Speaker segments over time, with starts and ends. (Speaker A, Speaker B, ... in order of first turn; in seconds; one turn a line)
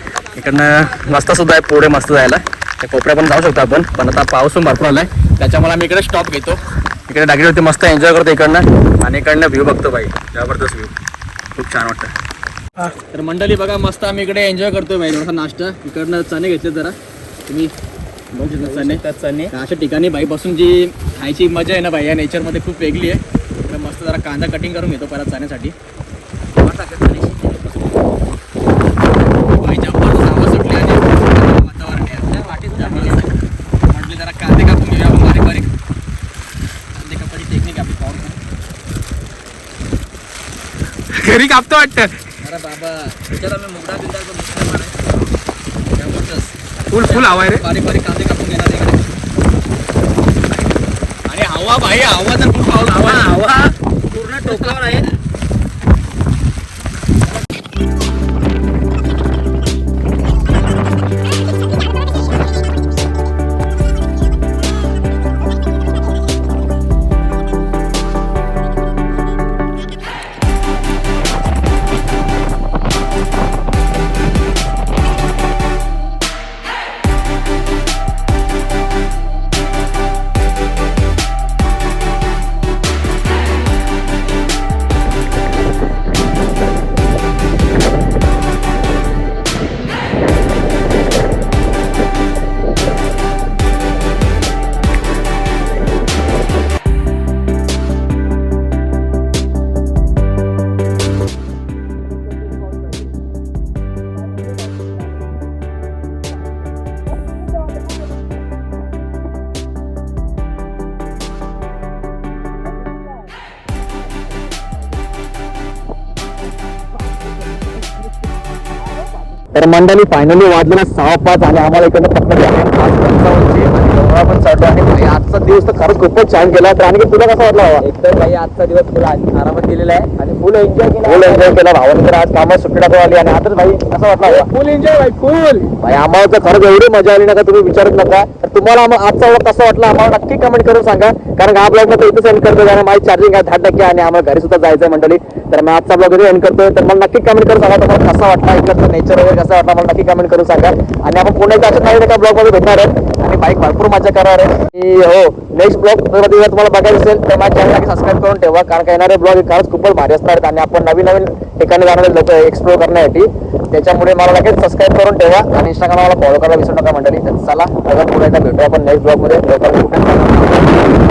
Speaker A: 0.3-10.9
Speaker A: 11.6-12.1
Speaker A: 13.1-16.9
Speaker A: 18.3-25.7
Speaker B: 18.6-19.5
Speaker B: 26.6-27.8
Speaker A: 29.6-33.4
Speaker B: 32.5-33.2
Speaker A: 33.9-35.7
Speaker A: 37.0-38.4
Speaker C: 41.1-42.1
Speaker A: 42.4-43.2
Speaker B: 43.3-44.9
Speaker A: 46.0-49.0
Speaker C: 46.9-47.6
Speaker A: 51.3-53.7
Speaker B: 54.1-55.2
Speaker A: 54.5-54.8
Speaker A: 119.5-127.9
Speaker B: 127.8-131.5
Speaker A: 131.0-134.5
Speaker C: 134.2-135.7
Speaker A: 135.8-170.9